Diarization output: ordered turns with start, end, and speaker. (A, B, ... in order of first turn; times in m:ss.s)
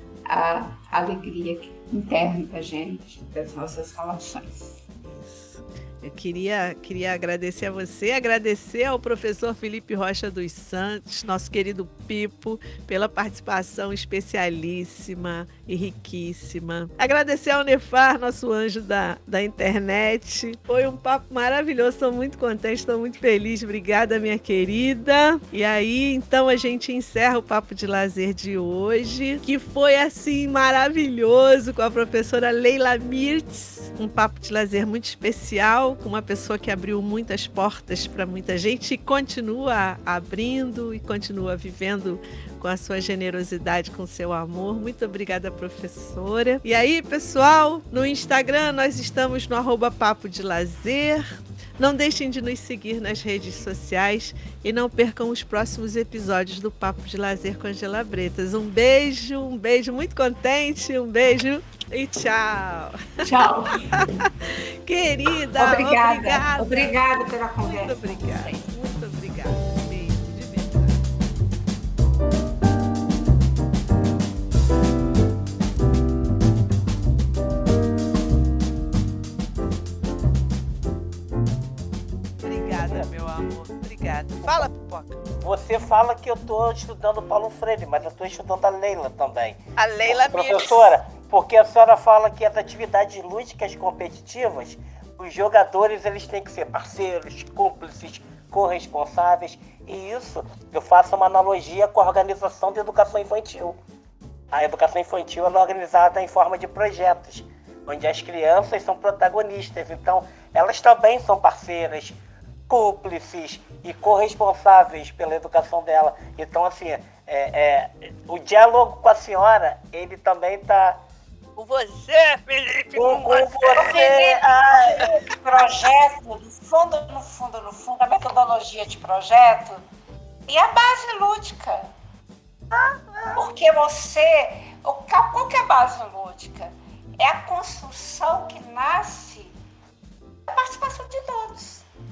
0:00.3-0:04.8 A
0:05.0-1:03.3 B
1:03.2-1:04.3 A
1:03.9-1:11.1 B
1:05.6-1:08.7 A
1:22.4-1:25.2 B
1:25.4-1:43.8 C
1:29.8-1:31.0 B
1:44.5-1:52.2 C
1:52.7-2:01.0 C
2:01.6-2:04.0 B
2:02.9-2:05.2 C
2:03.0-2:09.8 A
2:10.5-2:11.9 A
2:12.7-2:13.3 C
2:13.4-2:19.6 A
2:20.5-2:21.9 A